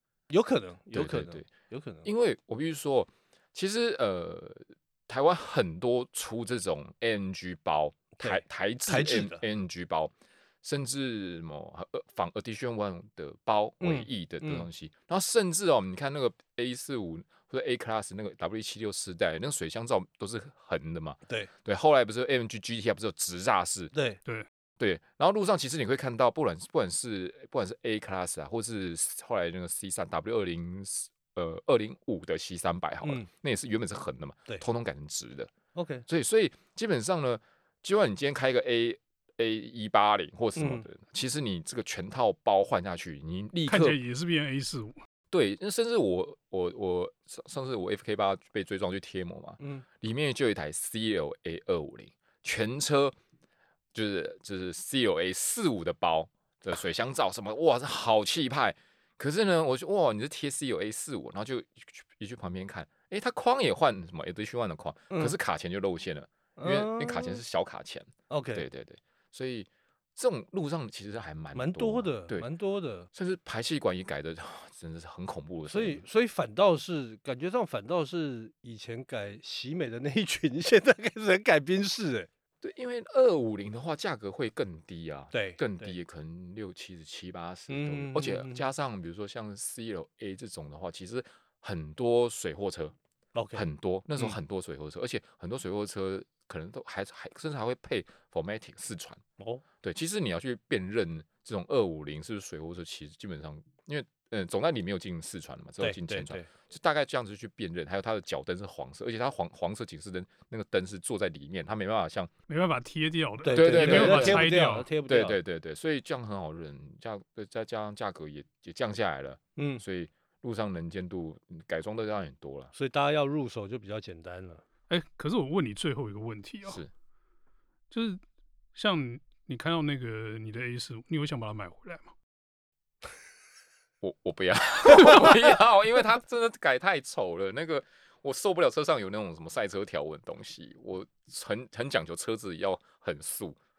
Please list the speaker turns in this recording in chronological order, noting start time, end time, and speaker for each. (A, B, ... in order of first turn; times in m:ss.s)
0:00.3-0:02.1 A
0:00.9-0:01.5 B
0:02.0-0:23.9 B
0:08.2-0:09.4 A
0:13.8-0:14.7 A
0:23.9-0:24.2 A
0:24.8-0:35.5 B
0:35.7-0:36.0 A
0:36.1-0:44.0 B
0:40.6-0:40.9 A
0:43.7-0:45.0 C
0:45.3-0:53.1 B
0:53.9-1:12.5 B
1:05.1-1:05.4 A
1:06.6-1:07.4 A
1:08.3-1:08.7 A
1:11.5-1:13.1 A
1:13.1-1:16.0 B
1:15.7-1:22.3 A
1:22.6-1:33.0 B
1:25.3-1:25.9 A
1:27.7-1:28.6 A
1:33.3-1:34.4 A
1:33.5-1:39.2 B
1:39.8-1:52.3 B
1:45.8-1:46.5 A
1:52.5-1:54.9 C
1:53.4-1:55.4 A
1:53.5-1:54.5 B
1:55.0-2:02.7 B
1:59.6-1:59.8 A
2:02.7-2:04.6 A
2:04.9-2:06.8 C
2:07.9-2:08.2 C
2:08.7-2:12.1 C
2:14.0-2:23.6 B